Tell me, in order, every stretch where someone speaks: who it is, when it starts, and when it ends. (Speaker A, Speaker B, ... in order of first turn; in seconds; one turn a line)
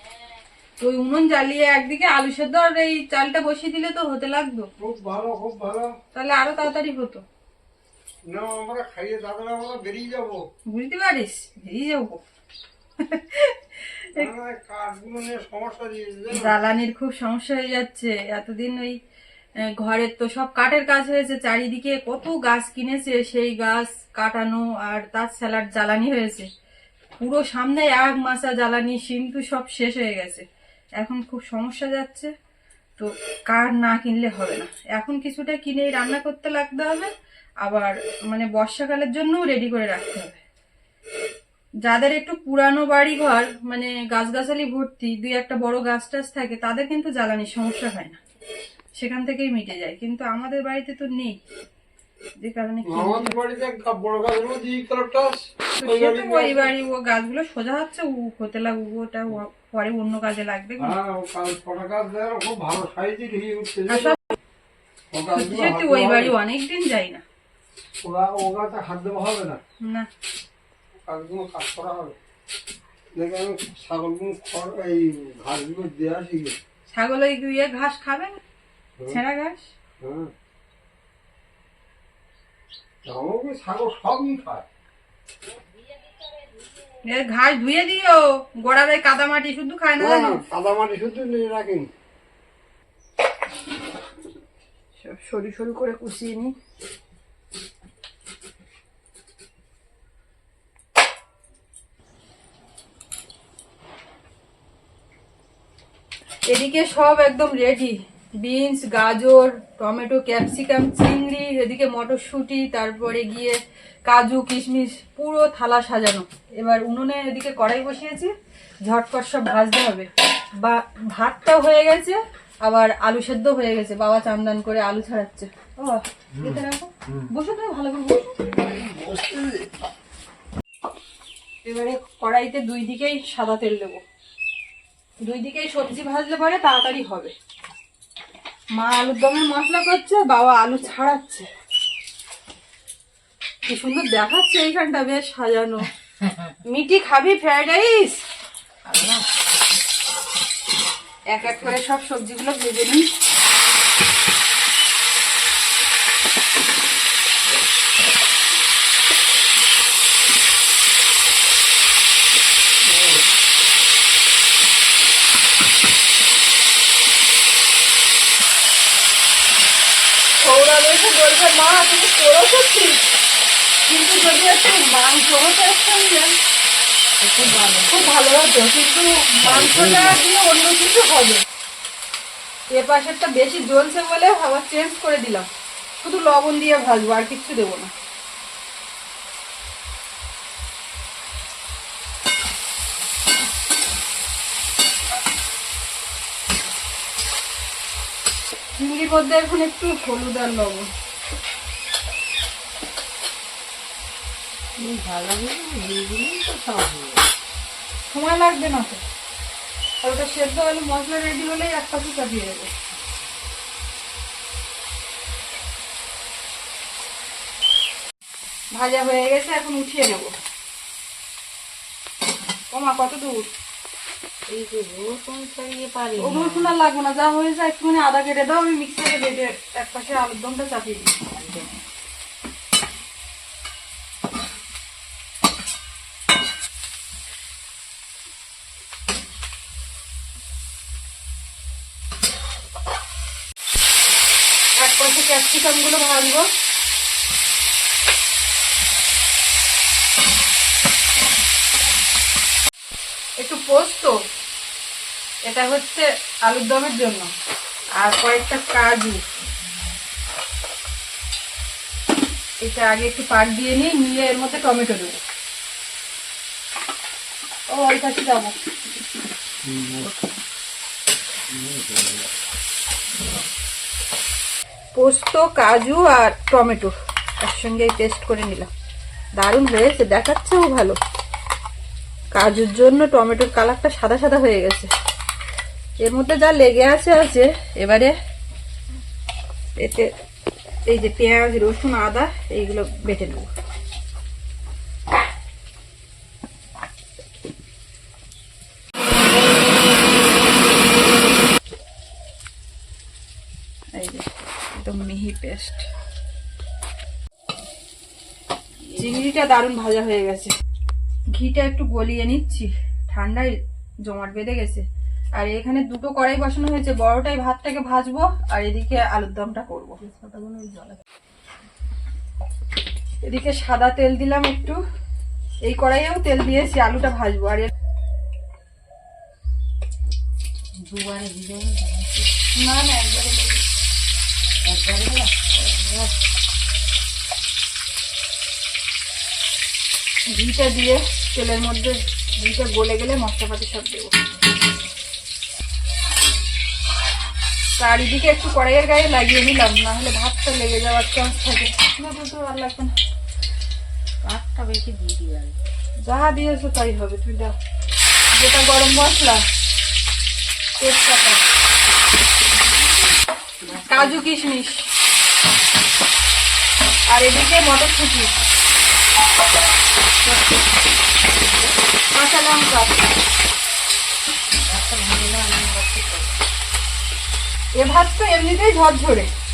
Speaker A: 0.8-4.7
Speaker B: 4.8-5.9
Speaker A: 6.1-7.2
Speaker B: 8.3-10.4
Speaker A: 10.7-12.2
Speaker A: 13.0-14.3
Speaker B: 14.2-16.5
Speaker A: 16.3-19.0
Speaker A: 19.6-26.5
Speaker A: 27.2-30.4
Speaker A: 31.0-32.3
Speaker A: 33.0-37.1
Speaker A: 37.6-40.4
Speaker A: 41.8-48.2
Speaker A: 49.0-51.4
Speaker A: 52.4-53.4
Speaker B: 52.9-56.7
Speaker A: 55.8-61.0
Speaker B: 60.8-64.2
Speaker A: 63.9-64.3
Speaker B: 65.1-66.3
Speaker A: 65.3-67.2
Speaker B: 68.0-69.6
Speaker A: 69.8-70.1
Speaker B: 71.0-72.2
Speaker B: 73.2-76.6
Speaker A: 76.9-78.4
Speaker A: 79.1-79.7
Speaker B: 80.0-80.3
Speaker B: 83.0-84.7
Speaker A: 87.0-90.4
Speaker B: 90.0-91.9
Speaker A: 95.0-96.5
Speaker A: 106.5-118.3
Speaker A: 118.8-128.5
Speaker B: 126.3-127.3
Speaker B: 128.5-129.7
Speaker A: 131.6-134.0
Speaker A: 135.2-137.3
Speaker A: 138.7-141.5
Speaker A: 143.7-145.9
Speaker C: 146.2-146.6
Speaker A: 146.7-148.2
Speaker C: 148.8-149.2
Speaker A: 151.3-153.1
Speaker B: 162.9-163.1
Speaker A: 170.4-173.1
Speaker A: 173.8-176.4
Speaker C: 177.2-178.2
Speaker A: 177.9-181.4
Speaker B: 179.4-180.2
Speaker A: 182.7-185.5
Speaker A: 186.0-187.9
Speaker A: 198.8-200.9
Speaker C: 204.8-207.2
Speaker A: 208.1-209.0
Speaker A: 210.0-212.7
Speaker A: 218.7-220.3
Speaker A: 222.7-223.5
Speaker C: 224.5-226.7
Speaker A: 226.2-231.2
Speaker C: 231.3-231.8
Speaker A: 244.8-246.5
Speaker A: 253.4-254.2
Speaker A: 255.4-257.3
Speaker A: 257.9-259.2
Speaker A: 262.6-265.2
Speaker A: 267.7-268.6
Speaker B: 269.6-270.1
Speaker B: 271.5-272.2
Speaker A: 274.9-278.7
Speaker A: 279.4-281.0
Speaker A: 282.3-284.9
Speaker A: 286.0-288.1
Speaker A: 289.8-290.1
Speaker A: 290.9-293.5
Speaker A: 303.9-305.9
Speaker A: 309.0-310.5
Speaker A: 311.3-321.0
Speaker A: 323.2-324.8
Speaker A: 325.6-327.7
Speaker C: 330.8-332.3
Speaker A: 332.5-333.6
Speaker C: 334.6-335.3
Speaker A: 335.6-336.1
Speaker A: 340.3-344.1
Speaker A: 347.8-352.9
Speaker C: 354.2-355.6
Speaker A: 356.0-357.6
Speaker A: 358.3-359.4
Speaker A: 360.8-361.4
Speaker C: 362.6-364.3
Speaker A: 363.9-364.9
Speaker A: 367.1-368.3
Speaker C: 370.2-370.6
Speaker C: 371.4-371.8
Speaker A: 372.1-373.0
Speaker C: 374.6-376.4
Speaker A: 377.8-379.3